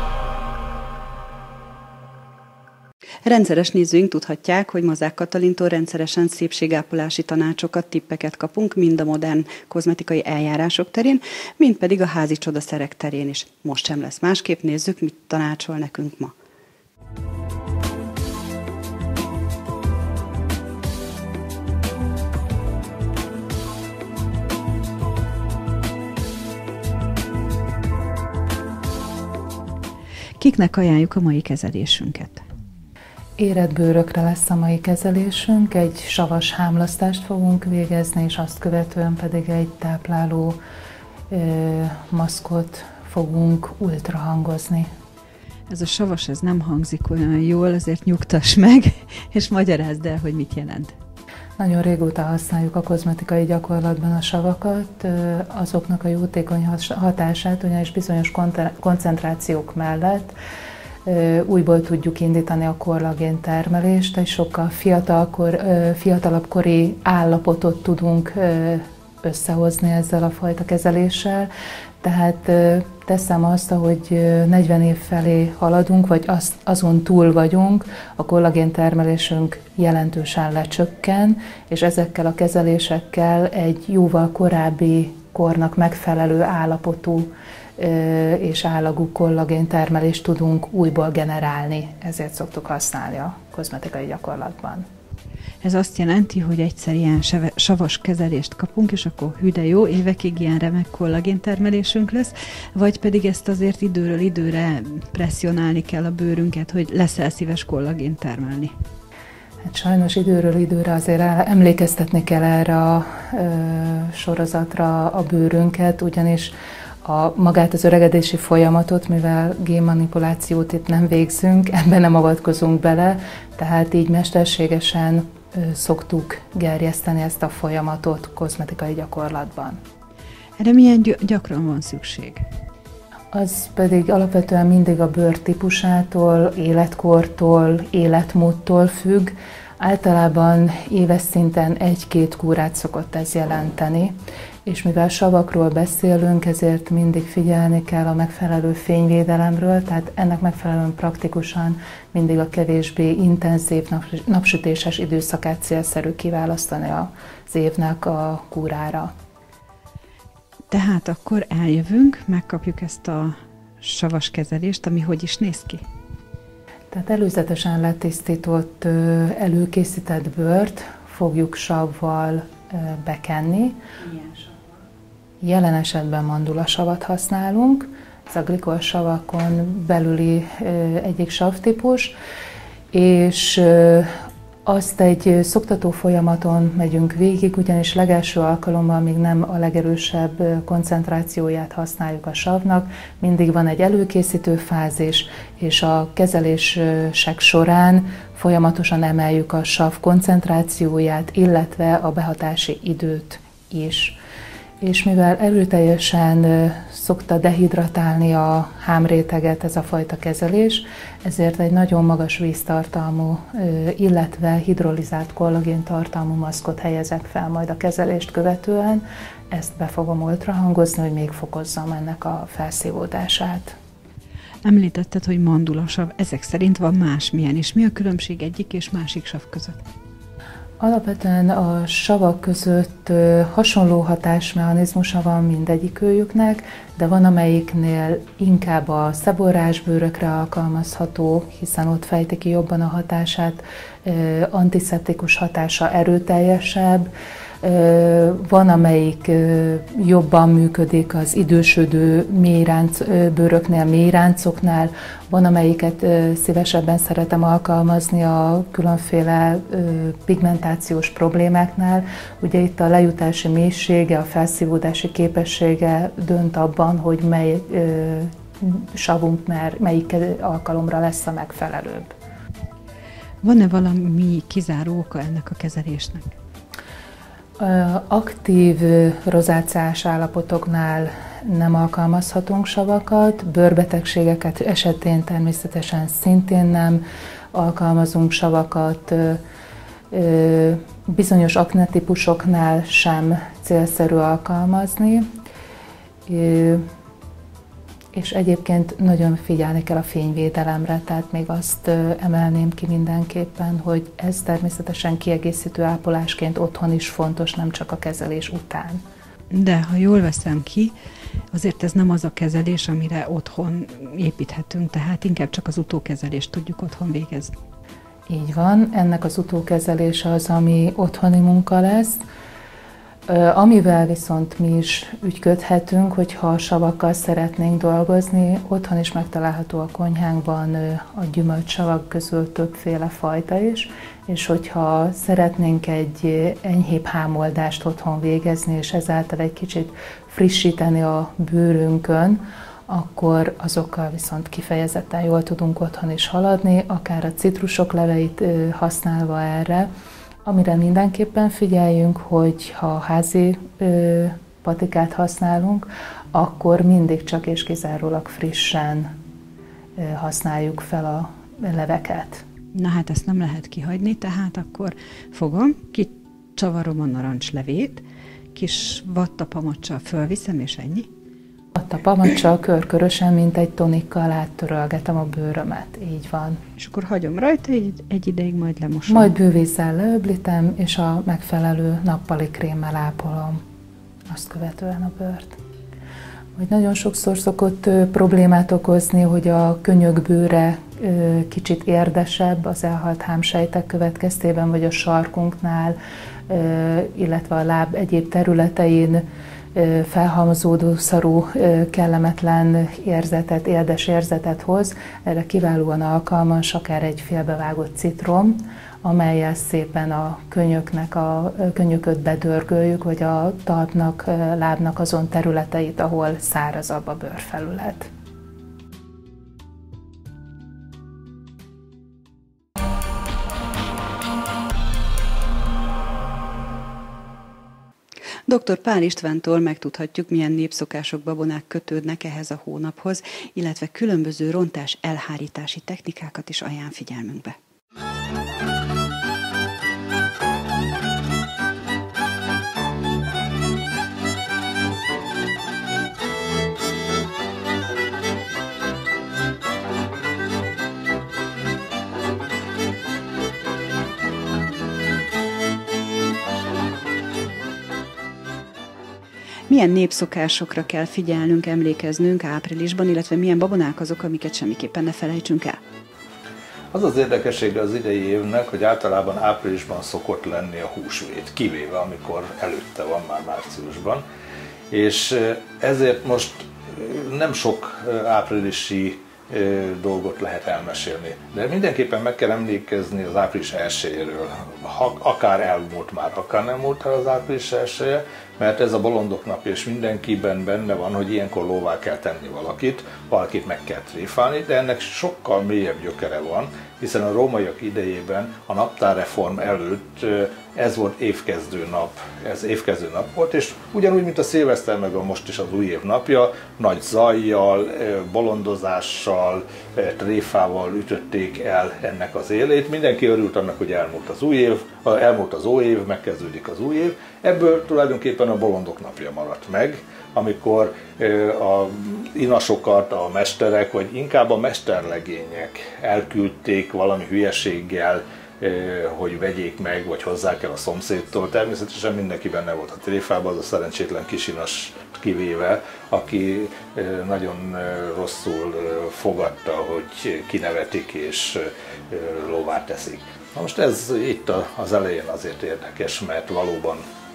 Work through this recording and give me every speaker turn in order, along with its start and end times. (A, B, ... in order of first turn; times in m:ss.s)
0:03.2-0:16.3 A
0:30.4-0:32.4 A
0:33.4-0:40.6 B
0:41.3-0:44.9 B
0:45.7-0:50.9 A
0:51.6-1:00.3 B
1:01.0-1:11.5 B
1:12.0-1:34.8 B
1:35.6-1:48.7 A
1:49.6-2:09.8 B
2:10.6-2:12.4 A
2:13.3-2:39.1 B
2:40.7-2:45.8 A
2:46.9-2:53.8 B
2:55.4-3:02.1 B
3:02.9-3:04.1 B
3:04.6-3:24.2 B
3:24.8-3:43.8 B
3:44.6-3:49.8 A
3:50.8-4:07.1 B
4:07.6-4:32.1 B
4:33.4-4:36.3 A
4:37.6-4:49.4 B
4:50.1-4:55.3 B
4:56.3-4:56.8 B
4:58.1-5:09.0 B
5:09.5-5:10.9 A
5:11.5-5:17.5 A
5:18.3-5:22.2 B
5:23.3-5:49.9 B
5:50.4-5:59.1 B
6:00.0-6:02.4 B
6:02.7-6:08.0 A
6:08.5-6:11.1 A
6:11.7-6:16.6 B
6:16.8-6:19.3 A
6:19.1-6:23.6 B
6:24.3-6:25.6 B
6:26.6-6:36.0 B
6:36.5-6:58.1 B
7:08.5-7:17.6 A
7:39.7-7:45.8 A
7:46.9-7:54.2 C
7:54.9-9:07.0 C